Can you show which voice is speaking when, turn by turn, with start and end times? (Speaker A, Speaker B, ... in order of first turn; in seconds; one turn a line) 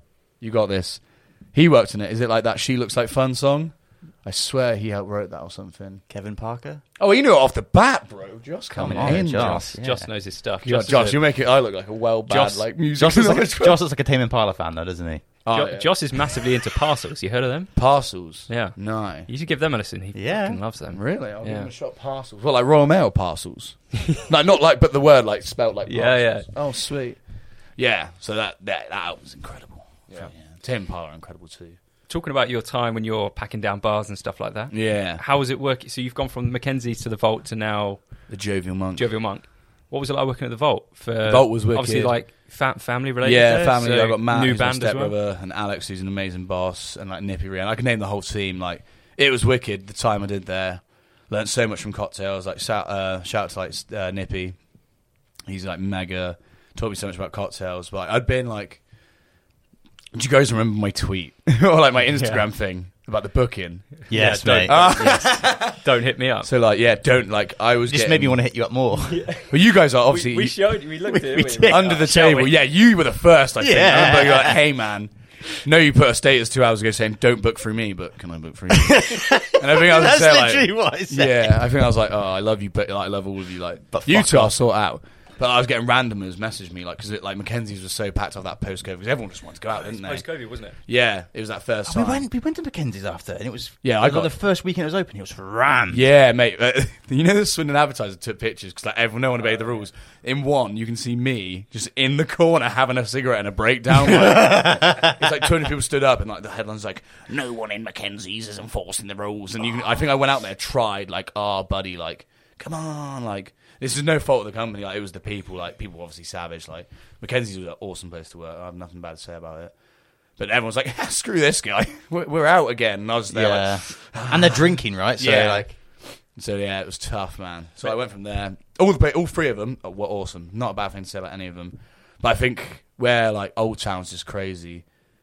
Speaker A: 0.4-6.0
Speaker B: 6.1-6.8
Speaker A: 7.0-9.8
Speaker B: 8.7-10.1
Speaker C: 8.9-11.2
Speaker A: 10.6-13.8
Speaker B: 12.3-15.4
Speaker A: 15.4-15.9
Speaker C: 15.5-21.7
Speaker A: 17.7-19.3
Speaker B: 20.1-20.6
Speaker A: 20.9-31.8
Speaker C: 25.9-26.7
Speaker C: 32.1-45.1
Speaker A: 34.7-35.2
Speaker A: 38.3-39.2
Speaker A: 41.2-42.2
Speaker A: 43.2-59.2
Speaker A: 60.1-65.8
Speaker C: 62.1-62.5
Speaker C: 64.0-66.5
Speaker B: 64.1-65.2
Speaker A: 66.4-68.4
Speaker B: 67.9-69.2
Speaker C: 69.1-72.5
Speaker A: 69.5-70.8
Speaker B: 71.1-72.1
Speaker A: 71.7-92.2
Speaker B: 73.6-74.6
Speaker B: 78.8-81.6
Speaker B: 83.9-84.5
Speaker C: 89.7-90.8
Speaker B: 91.9-96.0
Speaker A: 93.8-94.3
Speaker A: 95.9-135.0
Speaker B: 104.5-105.0
Speaker B: 123.3-125.8